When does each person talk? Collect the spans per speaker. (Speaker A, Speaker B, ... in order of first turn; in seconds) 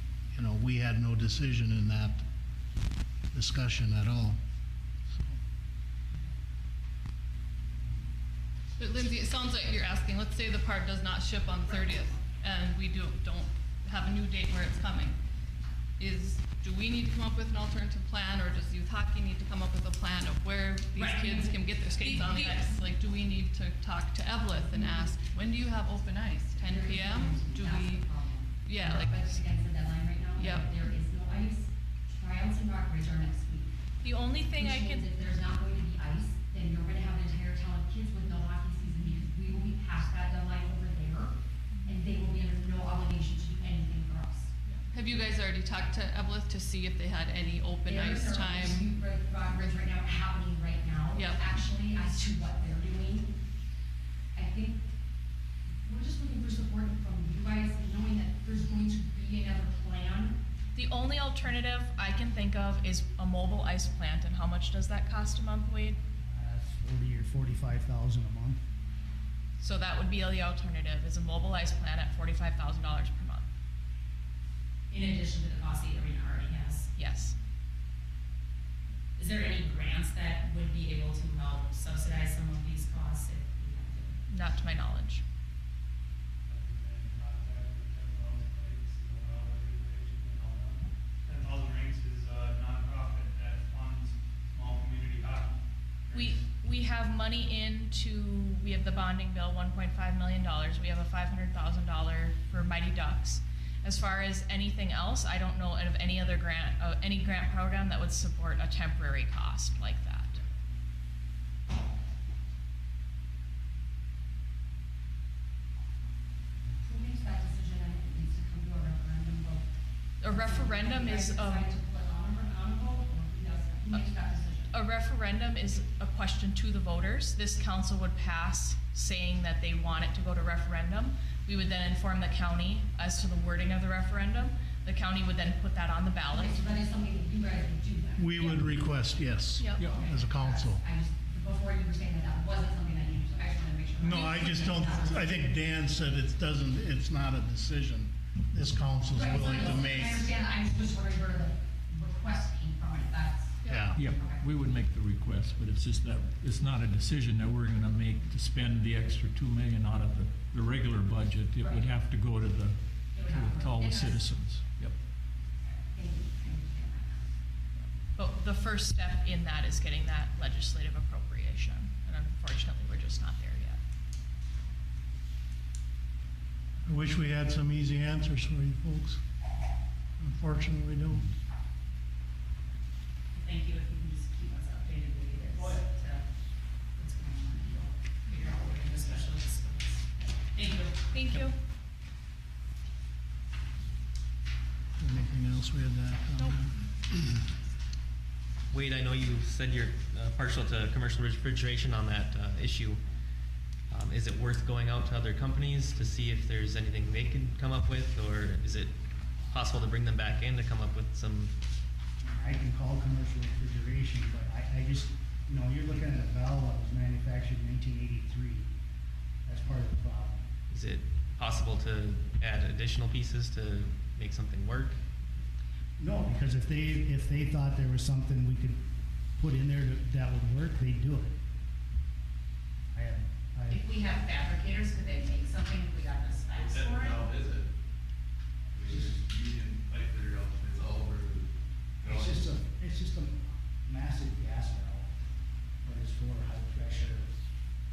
Speaker A: 0.3-2.2, 3.3-4.4, 5.1-5.4, 138.2-140.8, 144.0-150.3, 153.7-154.0, 176.8-179.2, 180.2-181.3, 195.0-197.4
Speaker B: 8.8-15.2, 16.0-28.1, 28.6-29.2, 30.4-30.7, 44.6-48.9, 51.1-51.4, 153.6-153.9
Speaker C: 21.0-21.5, 74.9-76.9, 79.2-84.2, 183.3-186.2, 186.9-191.0, 233.7-237.2
Speaker D: 26.6-33.8, 34.5-44.5, 47.8-53.3, 54.3-54.8, 55.8-60.4, 116.8-119.6, 120.2-124.7, 136.3-138.7, 139.8-145.5, 149.1-154.5, 161.6-161.9, 163.1-164.3, 165.6-167.3
Speaker E: 34.0-35.1, 60.7-66.0, 69.6-73.5, 76.9-77.3, 84.3-85.2, 96.1-110.4, 120.2-121.7, 124.7-136.7, 139.6-139.9, 144.1-144.9, 167.8-173.8, 191.1-191.6
Speaker F: 66.2-68.6, 212.2-218.7, 219.4-220.5, 226.0-228.8, 229.4-231.3, 232.9-233.9, 238.8-239.2, 242.0-245.1, 245.8-247.3
Speaker G: 86.5-96.4
Speaker H: 153.9-164.9
Speaker I: 198.7-203.0, 203.9-208.9, 209.5-211.5, 220.7-225.0
Speaker J: 236.5-237.7, 238.7-241.5, 242.0-242.5